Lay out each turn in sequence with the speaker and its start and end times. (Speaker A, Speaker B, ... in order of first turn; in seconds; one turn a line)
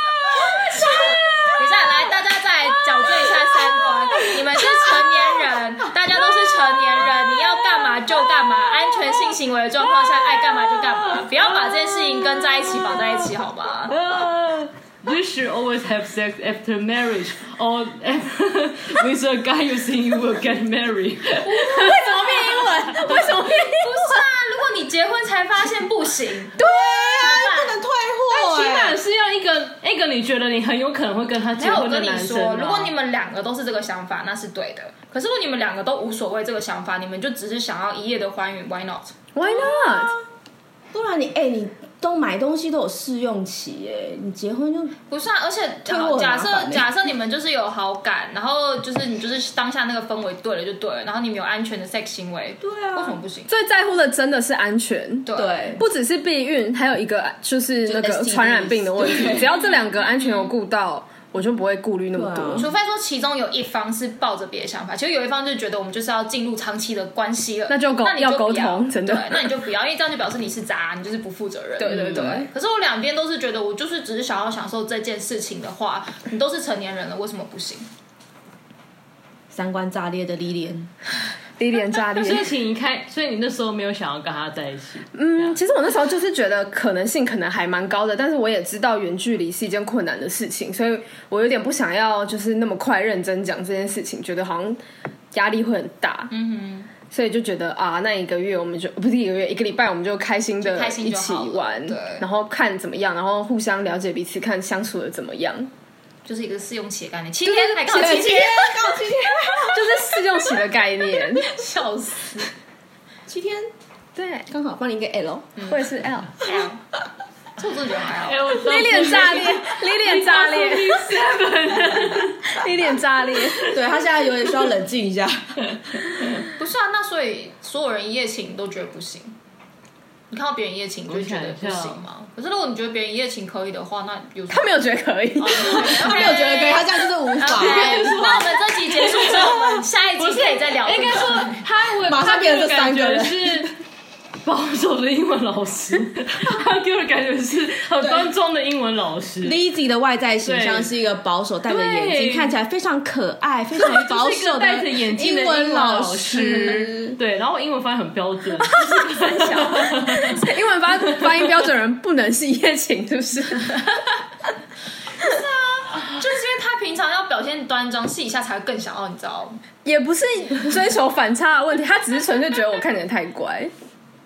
Speaker A: 0.3-1.9
Speaker B: 1.6-13.9
Speaker C: 10.5-13.2
Speaker C: 13.9-23.5
Speaker B: 21.5-22.2
Speaker A: 21.6-24.1
Speaker B: 23.1-26.6
Speaker A: 26.6-29.0
Speaker B: 27.1-27.8
Speaker C: 28.3-32.9
Speaker B: 31.6-39.1
Speaker D: 39.4-40.1
Speaker A: 39.4-40.2
Speaker A: 40.9-45.0
Speaker B: 45.1-53.5
Speaker A: 45.9-46.9
Speaker A: 52.6-53.2
Speaker D: 53.5-62.7
Speaker B: 55.3-55.6
Speaker A: 55.3-55.8
Speaker A: 57.8-59.5
Speaker B: 59.4-60.5
Speaker A: 62.1-62.7
Speaker B: 62.6-77.9
Speaker D: 67.7-69.5
Speaker D: 71.8-72.5
Speaker A: 71.9-72.4
Speaker A: 79.5-80.9
Speaker D: 81.6-82.5
Speaker C: 82.1-85.5
Speaker D: 85.1-94.8
Speaker D: 95.3-96.3
Speaker B: 96.3-96.9
Speaker D: 97.1-105.7
Speaker B: 100.6-102.2
Speaker B: 106.2-109.0
Speaker D: 107.4-108.6
Speaker A: 107.8-110.0
Speaker D: 109.6-111.6
Speaker B: 111.4-112.5
Speaker A: 113.3-113.7
Speaker D: 114.1-114.5
Speaker A: 114.5-115.5
Speaker D: 115.7-116.5
Speaker B: 116.4-116.8
Speaker B: 117.6-118.6
Speaker C: 118.2-122.7
Speaker D: 118.6-121.1
Speaker D: 122.5-123.8
Speaker C: 123.4-123.7
Speaker A: 123.7-125.8
Speaker C: 126.1-126.4
Speaker B: 126.6-129.4
Speaker B: 130.3-134.7
Speaker C: 131.1-132.1
Speaker D: 134.5-136.3
Speaker B: 135.4-141.6
Speaker A: 135.7-138.5
Speaker C: 137.5-143.7
Speaker A: 142.1-143.7
Speaker C: 144.4-149.6
Speaker A: 148.0-148.3
Speaker A: 149.4-157.2
Speaker C: 150.4-150.9
Speaker C: 151.7-152.6
Speaker C: 153.8-160.4
Speaker D: 158.6-163.8
Speaker B: 165.2-169.6
Speaker D: 169.8-173.7